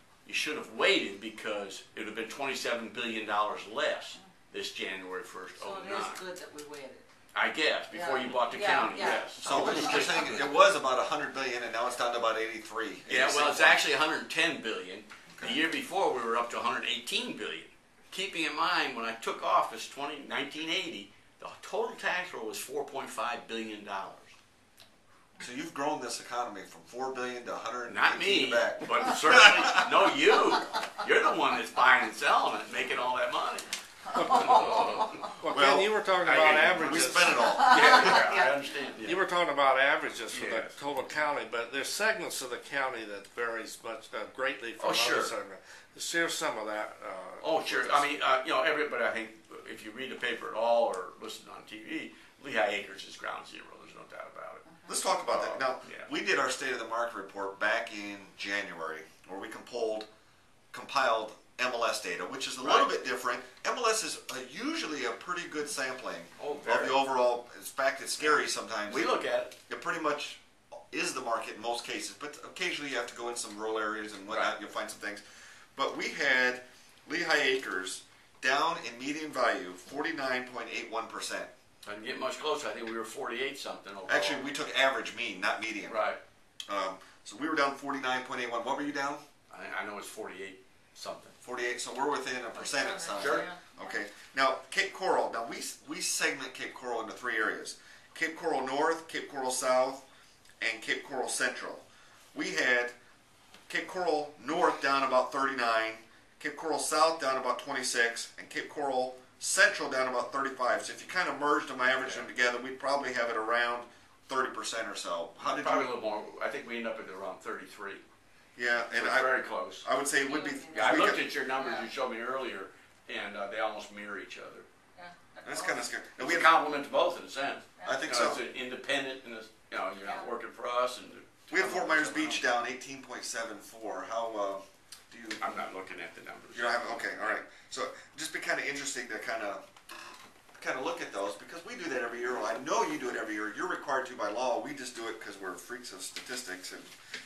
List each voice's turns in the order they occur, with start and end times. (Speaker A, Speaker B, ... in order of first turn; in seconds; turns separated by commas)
Speaker A: 0.2-6.2, Speaker B: 5.6-7.1, Speaker A: 7.3-10.5, Speaker B: 7.9-10.2, Speaker C: 9.3-13.8, Speaker A: 13.1-24.3, Speaker C: 15.3-15.6, Speaker C: 25.4-30.1, Speaker A: 27.9-35.3, Speaker B: 34.1-35.3, Speaker D: 34.2-37.5, Speaker C: 35.5-35.9, Speaker A: 36.2-39.2, Speaker C: 36.7-38.1, Speaker B: 37.4-38.5, Speaker D: 39.0-48.1, Speaker A: 40.3-40.8, Speaker A: 44.8-45.3, Speaker A: 47.4-54.6, Speaker B: 54.7-55.0, Speaker C: 54.9-60.1, Speaker A: 55.3-56.1, Speaker C: 60.7-69.1, Speaker A: 62.6-62.9, Speaker A: 66.4-67.0, Speaker A: 68.2-69.5, Speaker C: 69.7-75.2, Speaker A: 74.3-74.5, Speaker C: 75.7-81.5, Speaker A: 81.8-84.5, Speaker C: 84.1-86.0, Speaker A: 85.9-86.2, Speaker C: 86.7-89.2, Speaker A: 89.5-91.3, Speaker C: 91.4-100.0, Speaker B: 92.5-94.0, Speaker A: 93.2-93.5, Speaker C: 100.6-102.9, Speaker C: 103.7-115.9, Speaker A: 111.9-112.3, Speaker A: 115.4-118.0, Speaker C: 118.5-121.2, Speaker A: 118.9-119.8, Speaker B: 120.2-121.9, Speaker A: 120.7-124.7, Speaker B: 125.0-125.8, Speaker C: 125.4-126.5, Speaker A: 126.2-132.4, Speaker C: 127.8-128.4, Speaker B: 130.0-130.3, Speaker C: 131.5-135.4, Speaker A: 135.4-137.4, Speaker C: 136.5-139.6, Speaker C: 140.6-146.9